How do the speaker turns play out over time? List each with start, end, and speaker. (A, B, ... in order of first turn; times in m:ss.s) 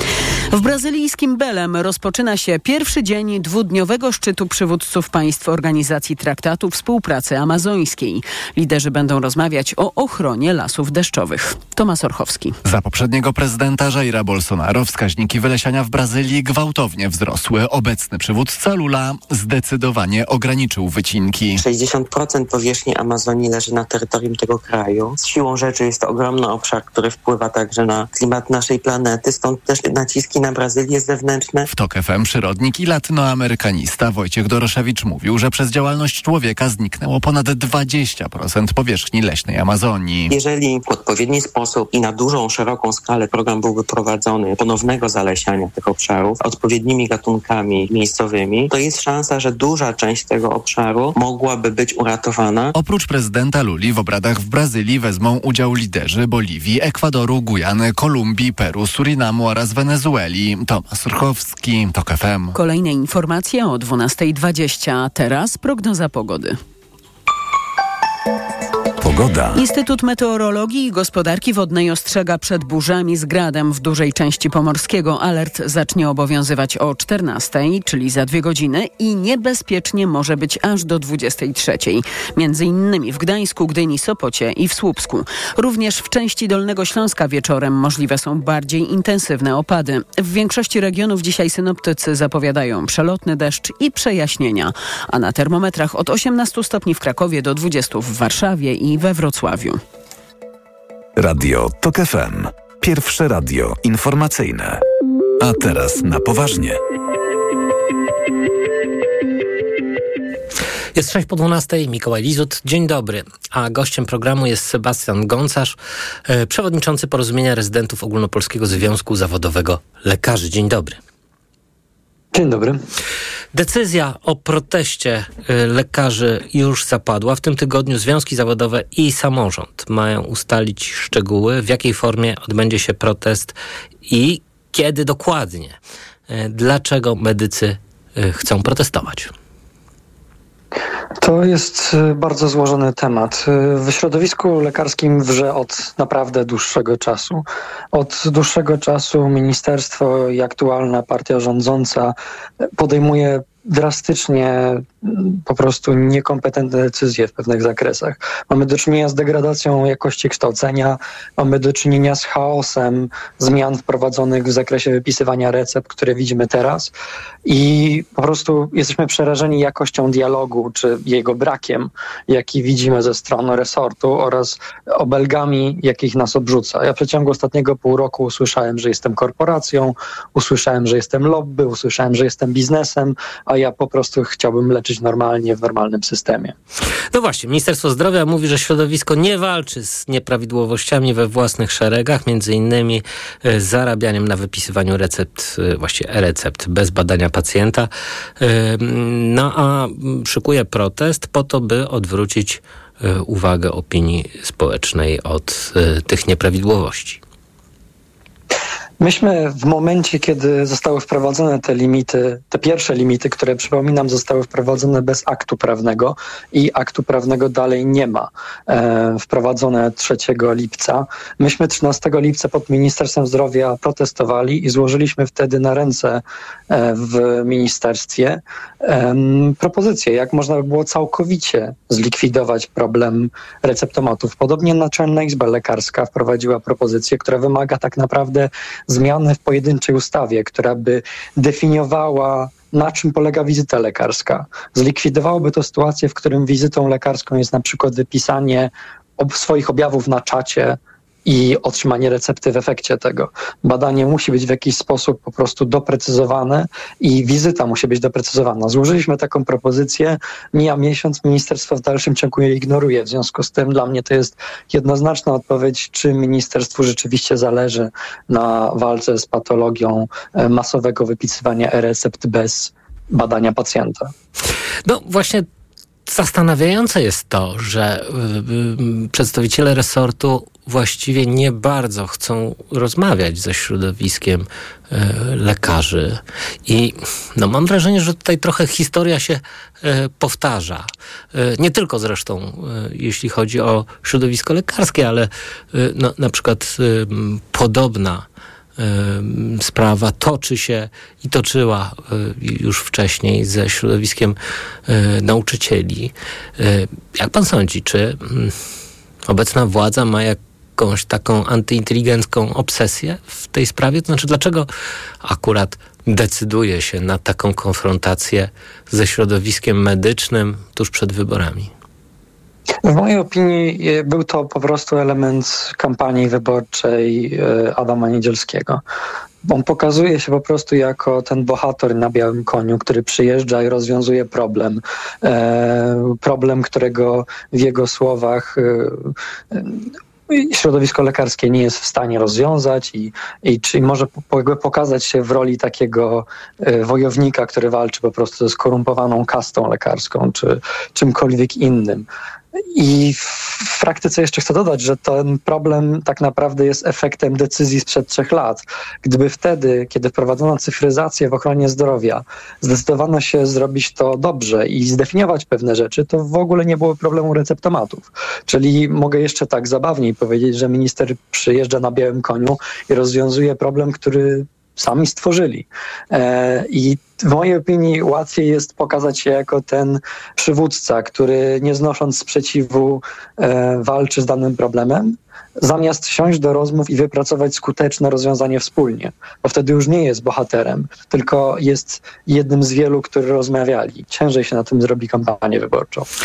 0:00.5-0:12.6 A
0:12.6-0:21.6 B
0:21.6-0:31.7 C
0:31.7-0:40.3 B
0:40.3-0:52.7 C
0:52.8-1:02.6 B
1:02.5-1:06.6 A
1:09.0-1:09.6 D
1:09.5-1:39.8 A
1:41.2-1:44.8 D
1:45.4-1:46.8 D
1:50.9-2:01.0 E
2:02.3-2:02.8 F
2:03.5-2:15.8 E
2:16.3-2:19.3 E
2:21.2-2:46.9 F
2:47.4-3:06.6 F
3:07.1-3:27.2 E
3:29.0-4:34.1 F
4:34.8-4:35.5 E
4:36.1-4:58.3 E
4:58.8-5:08.6 E
5:09.3-5:14.7 E
5:15.2-5:21.7 E
5:22.8-5:28.8 F
5:29.4-5:52.1 F
5:52.7-6:36.1 F